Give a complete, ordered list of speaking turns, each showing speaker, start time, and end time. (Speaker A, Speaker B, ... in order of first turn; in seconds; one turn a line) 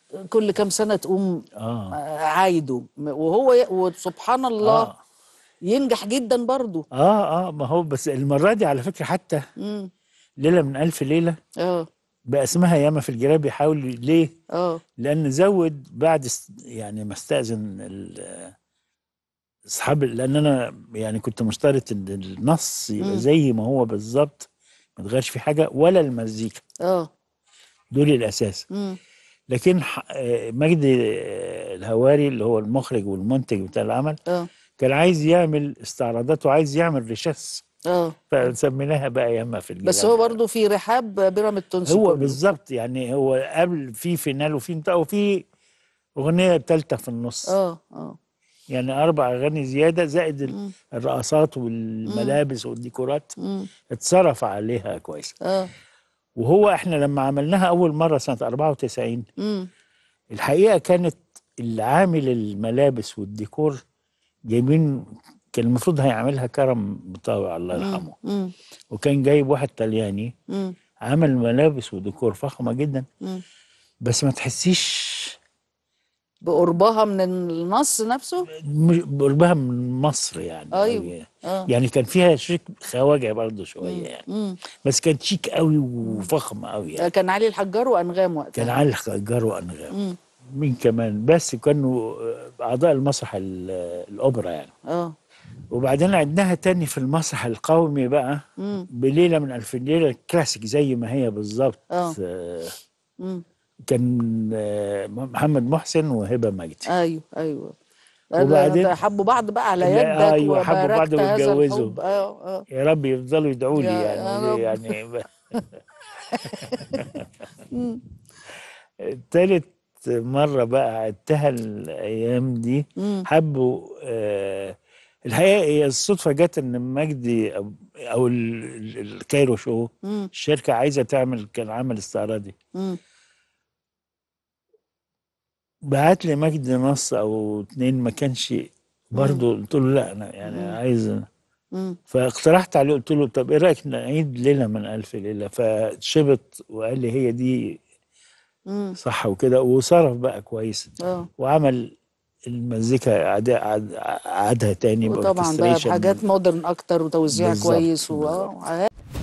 Speaker A: 0.3-1.4
Speaker B: 1.6-1.9
Speaker A: 2.0-4.9
Speaker B: 4.6-5.0
Speaker A: 5.7-6.8
Speaker B: 7.0-9.4
Speaker A: 9.6-9.9
Speaker B: 10.4-11.3
Speaker B: 12.3-14.3
Speaker A: 14.6-14.8
Speaker B: 15.0-18.5
Speaker B: 19.7-26.6
Speaker B: 27.9-28.7
Speaker B: 29.5-34.2
Speaker B: 34.8-37.6
Speaker A: 37.9-38.2
Speaker B: 38.3-40.4
Speaker A: 39.9-42.4
Speaker B: 41.9-45.4
Speaker B: 46.2-47.5
Speaker A: 47.5-48.2
Speaker B: 48.7-53.3
Speaker A: 52.1-52.4
Speaker A: 53.4-53.7
Speaker B: 53.9-55.4
Speaker A: 55.4-55.7
Speaker B: 56.4-59.2
Speaker A: 59.4-59.7
Speaker B: 60.3-63.8
Speaker B: 64.5-65.0
Speaker B: 65.5-68.1
Speaker A: 67.8-68.5
Speaker B: 68.9-70.3
Speaker B: 71.1-73.1
Speaker B: 74.0-75.4
Speaker A: 76.4-78.5
Speaker B: 78.6-84.2
Speaker A: 80.7-81.7
Speaker A: 83.8-84.6
Speaker B: 84.8-87.1
Speaker A: 87.0-88.8
Speaker B: 88.6-89.9
Speaker B: 90.6-94.7
Speaker B: 95.7-98.4
Speaker A: 98.6-98.9
Speaker B: 98.9-102.8
Speaker A: 101.9-102.2
Speaker B: 103.9-106.9
Speaker A: 106.9-107.7
Speaker A: 108.4-112.7
Speaker B: 108.4-109.0
Speaker B: 109.8-112.0
Speaker B: 112.7-115.3
Speaker A: 113.8-115.0
Speaker A: 116.3-117.1
Speaker B: 116.5-117.3
Speaker A: 117.7-118.0
Speaker B: 119.1-132.5
Speaker A: 123.0-123.3
Speaker A: 130.1-130.3
Speaker B: 135.9-141.2
Speaker A: 139.2-139.4
Speaker A: 140.4-140.8
Speaker B: 142.1-147.6
Speaker A: 148.7-149.0
Speaker B: 149.0-151.9
Speaker B: 152.5-156.2
Speaker A: 155.1-158.9
Speaker B: 157.3-158.5